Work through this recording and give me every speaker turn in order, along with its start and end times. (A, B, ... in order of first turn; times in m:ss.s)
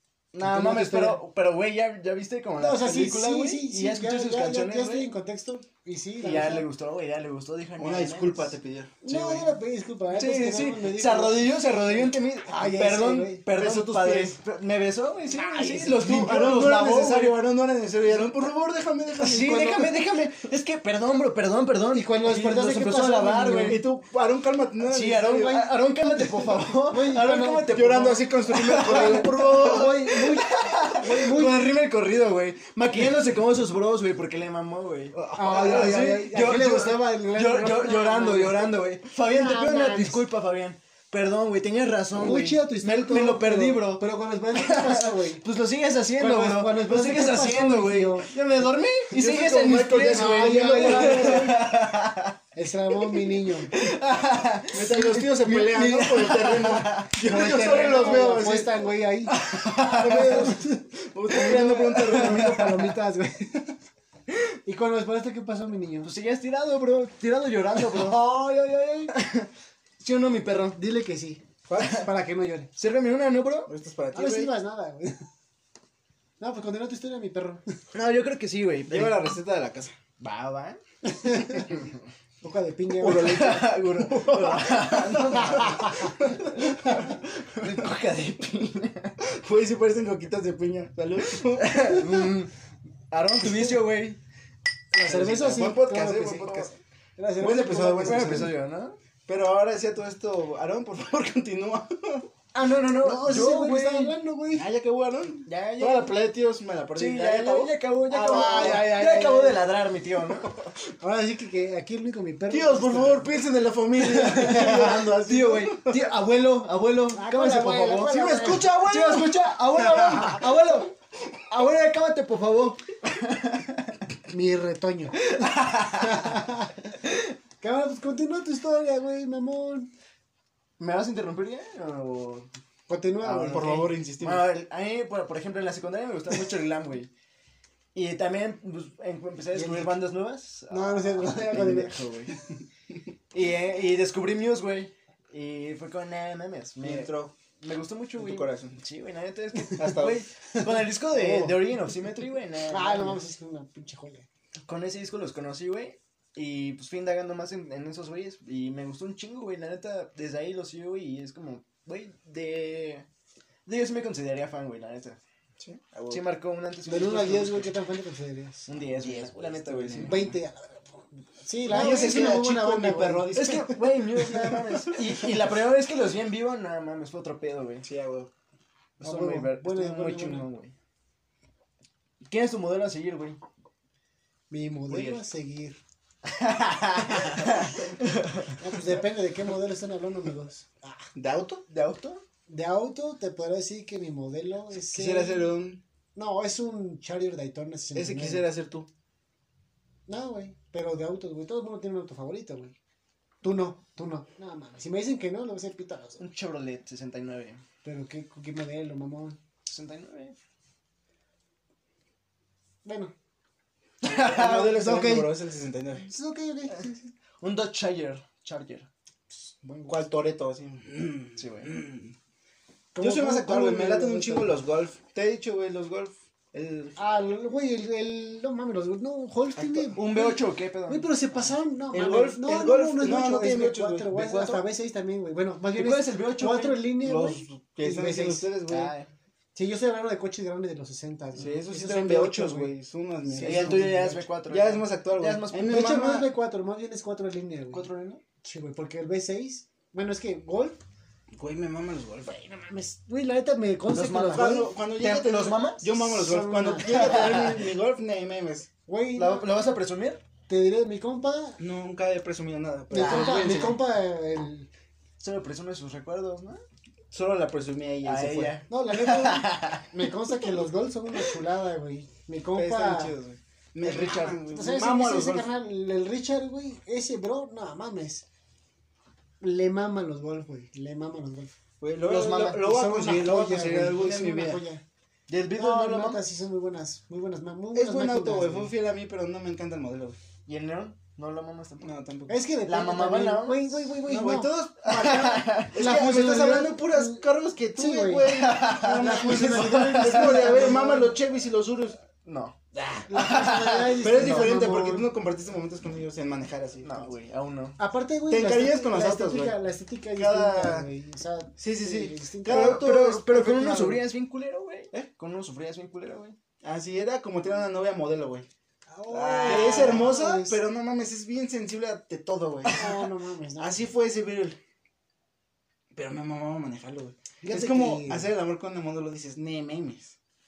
0:00.3-0:05.1 A
0:00.4-0:01.2 B
0:02.6-0:06.7 B
0:06.2-0:08.5 A
0:07.8-0:09.0 C
0:09.0-0:13.4 B
0:09.0-0:09.5 A
0:10.1-0:17.4 A
0:13.5-0:14.4 C
0:15.3-0:16.4 B
0:15.8-0:20.0 C
0:19.2-0:23.8 A
0:21.9-0:23.8 B
0:23.7-0:25.7 C
0:24.8-0:52.4 A
0:25.6-0:31.7 B
0:27.7-0:30.0 C
0:35.3-0:40.2 B
0:35.4-0:36.0 C
0:42.1-0:45.4 B
0:46.2-0:48.3 B
0:49.1-0:51.6 C
0:49.9-0:51.7 B
0:52.5-0:53.9 B
0:53.1-0:58.4 A
0:54.7-0:58.9 C
0:57.2-0:59.4 B
0:59.3-1:00.6 A
0:59.8-1:02.8 C
1:00.0-1:00.8 B
1:01.3-1:02.8 A
1:01.3-1:03.8 B
1:04.6-1:06.1 B
1:06.0-1:08.3 A
1:07.8-1:09.1 B
1:09.1-1:09.5 A
1:10.0-1:10.8 A
1:10.7-1:12.7 B
1:11.7-1:12.0 C
1:12.8-1:13.7 A
1:13.7-1:14.5 C
1:14.1-1:15.2 B
1:16.4-1:17.6 B
1:17.9-1:19.2 A
1:18.9-1:20.0 C
1:20.2-1:20.8 A
1:21.0-1:21.7 B
1:21.7-1:22.0 A
1:22.4-1:23.7 B
1:23.0-1:29.2 A
1:23.0-1:27.9 C
1:25.4-1:26.2 B
1:29.2-1:32.0 C
1:31.4-1:32.5 A
1:33.1-1:34.2 A
1:34.9-1:38.5 B
1:35.1-1:36.7 C
1:35.1-1:35.6 A
1:37.4-1:38.5 C
1:38.0-1:39.0 A
1:39.3-1:42.3 C
1:42.5-1:44.2 A
1:43.0-1:44.7 B
1:44.5-1:48.9 C
1:45.4-1:46.1 A
1:47.0-1:50.6 A
1:48.1-1:49.6 B
1:51.0-1:53.4 B
1:52.5-1:56.1 C
1:54.0-2:00.9 A
1:54.4-1:55.1 B
1:57.1-1:58.8 B
1:58.0-2:00.3 C
2:01.5-2:04.0 A
2:04.3-2:07.0 B
2:05.2-2:06.3 A
2:07.6-2:09.9 B
2:10.8-2:12.5 A
2:12.9-2:13.9 B
2:13.2-2:17.1 A
2:13.4-2:14.5 C
2:17.9-2:22.3 A
2:19.5-2:20.0 B
2:20.7-2:22.0 B
2:23.3-2:33.2 A
2:26.8-2:27.3 C
2:28.2-2:28.8 C
2:29.7-2:30.2 C
2:30.6-2:31.7 B
2:32.7-2:34.3 B
2:34.6-2:43.1 A
2:43.6-2:45.2 A
2:45.6-2:46.2 C
2:46.1-2:47.7 A
2:46.9-2:48.7 B
2:48.7-2:50.3 A
2:49.0-2:50.3 C
2:50.0-2:53.6 B
2:51.7-2:55.2 C
2:51.7-2:52.4 A
2:53.3-2:57.8 A
2:57.8-2:58.3 C
2:59.0-3:00.5 B
2:59.0-3:00.7 A
3:02.2-3:03.4 A
3:04.5-3:05.8 B
3:04.9-3:05.2 A
3:06.2-3:08.8 A
3:08.6-3:11.1 B
3:11.2-3:11.6 C
3:11.7-3:12.2 A
3:12.5-3:15.5 B
3:14.8-3:15.8 C
3:16.1-3:18.4 B
3:17.9-3:18.9 C
3:20.1-3:22.8 B
3:23.4-3:26.2 B
3:26.2-3:27.6 A
3:27.8-3:29.4 B
3:29.6-3:30.4 A
3:32.8-3:33.1 B
3:34.0-3:34.8 A
3:34.1-3:36.1 C
3:34.4-3:35.3 B
3:36.1-3:37.1 B
3:37.4-3:38.9 A
3:39.3-3:40.0 B
3:39.9-3:42.1 C
3:41.4-3:41.7 A
3:42.9-3:44.6 B
3:43.0-3:47.0 C
3:47.0-3:58.5 B
3:49.6-3:50.0 C
3:49.9-3:51.5 A
3:51.9-3:54.2 C
3:54.1-3:54.6 A
3:55.7-3:56.8 A
3:57.0-3:58.9 C
3:58.7-3:59.1 A
3:59.5-4:02.7 B
4:01.4-4:06.3 C
4:03.2-4:04.2 B
4:03.4-4:05.8 A
4:05.5-4:07.9 B
4:07.7-4:08.2 A
4:08.4-4:10.8 B
4:11.3-4:12.4 C
4:12.2-4:14.7 B
4:13.9-4:15.8 A
4:14.3-4:18.7 C
4:15.8-4:17.4 B
4:16.8-4:17.6 A
4:18.9-4:19.6 B
4:19.2-4:20.2 A
4:20.5-4:21.6 B
4:21.6-4:23.8 C
4:22.9-4:24.7 B
4:22.9-4:23.8 A
4:25.2-4:26.6 A
4:27.1-4:28.6 C
4:28.0-4:30.0 A
4:28.7-4:33.1 B
4:32.5-4:35.5 C
4:33.8-4:34.4 A
4:34.4-4:38.2 B
4:39.4-4:41.5 B
4:41.8-4:44.6 C
4:42.1-4:44.8 B
4:42.1-4:42.6 A
4:45.3-4:46.2 A
4:45.6-4:48.7 B
4:47.7-4:50.2 C
4:50.4-4:51.9 A
4:51.8-4:52.4 C
4:52.3-4:54.5 B
4:52.6-4:53.8 A
4:54.0-5:02.0 C
4:54.8-4:55.8 A
4:55.7-5:01.1 B
4:58.2-5:00.8 A
5:02.2-5:02.6 A
5:02.7-5:03.1 C
5:03.1-5:05.1 B
5:03.1-5:04.5 A
5:04.0-5:07.1 C
5:06.8-5:07.8 A
5:07.8-5:12.9 B
5:08.3-5:09.6 C
5:10.1-5:10.9 C
5:11.6-5:14.0 C
5:12.5-5:16.4 A
5:16.6-5:18.5 C
5:18.9-5:20.6 B
5:19.1-5:22.9 C
5:19.4-5:20.0 A
5:22.6-5:23.8 B
5:23.6-5:24.6 C
5:25.9-5:30.1 C
5:27.4-5:28.3 B